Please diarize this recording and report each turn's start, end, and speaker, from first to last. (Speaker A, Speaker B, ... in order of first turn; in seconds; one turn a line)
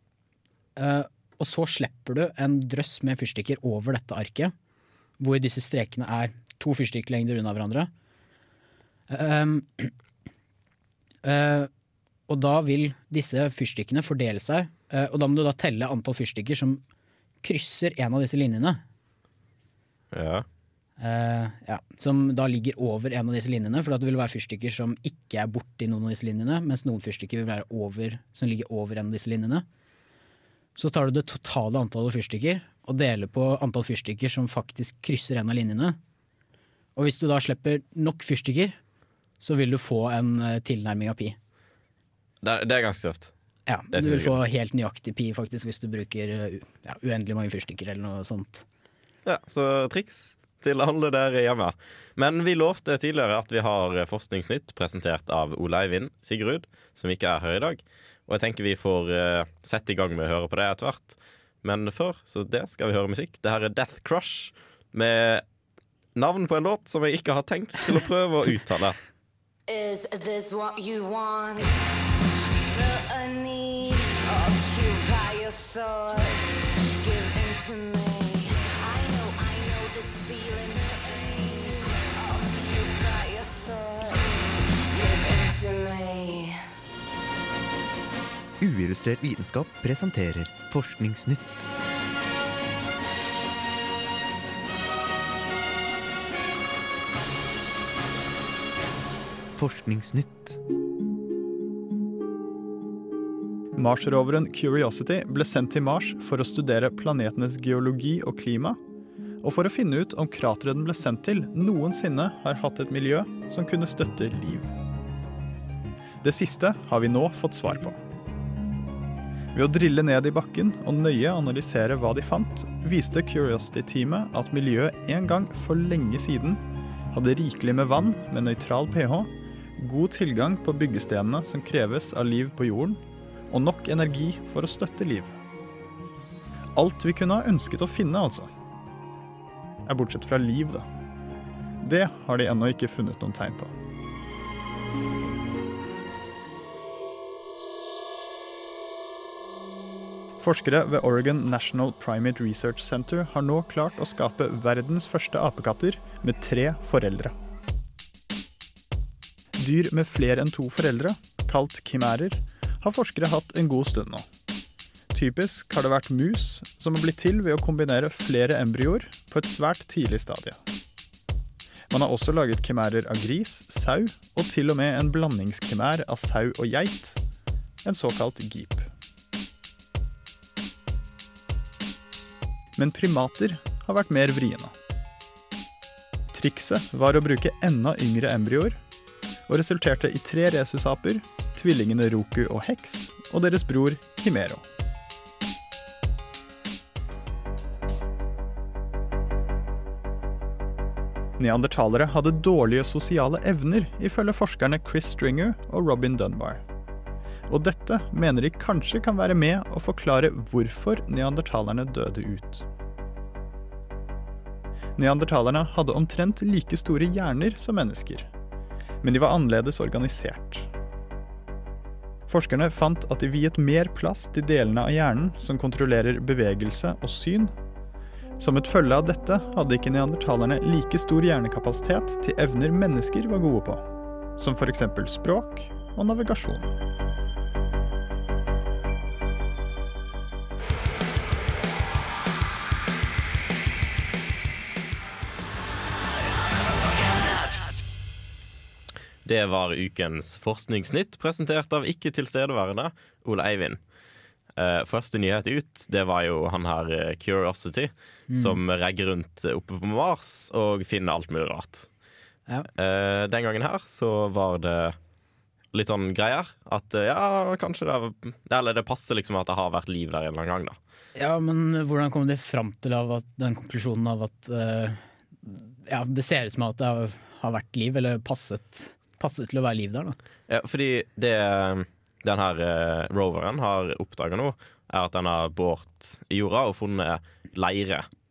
Speaker A: 0.8-4.5
Speaker A: 5.2-7.9
Speaker A: 9.1-9.9
Speaker A: 11.2-11.7
Speaker A: 12.3-16.8
Speaker A: 17.4-18.8
Speaker B: 20.1-20.5
Speaker A: 21.0-29.6
Speaker A: 30.8-36.0
Speaker A: 37.0-38.8
Speaker A: 39.4-41.4
Speaker B: 42.4-43.3
Speaker A: 43.7-48.6
Speaker B: 43.9-44.5
Speaker B: 49.2-65.4
Speaker B: 66.1-69.0
Speaker C: 69.7-71.8
Speaker C: 72.5-86.6
Speaker D: 88.6-91.6
Speaker D: 99.6-100.6
Speaker E: 103.8-108.8
Speaker E: 109.4-114.7
Speaker E: 116.2-118.0
Speaker E: 119.5-135.3
Speaker E: 136.8-138.5
Speaker E: 139.9-140.9
Speaker E: 141.8-143.8
Speaker E: 150.4-157.3
Speaker E: 159.6-164.2
Speaker E: 165.1-170.6
Speaker E: 171.9-177.2
Speaker E: 177.8-178.9
Speaker E: 182.8-184.8
Speaker E: 186.3-188.8
Speaker E: 189.5-194.6
Speaker E: 201.4-206.6
Speaker E: 207.5-212.7
Speaker E: 215.0-218.3
Speaker E: 219.0-220.7
Speaker E: 222.3-227.5
Speaker E: 228.4-236.7
Speaker B: 249.2-253.8
Speaker B: 254.6-261.9
Speaker A: 258.3-258.6
Speaker B: 262.8-265.0
Speaker B: 265.7-270.8
Speaker A: 271.2-280.2
Speaker B: 280.5-288.1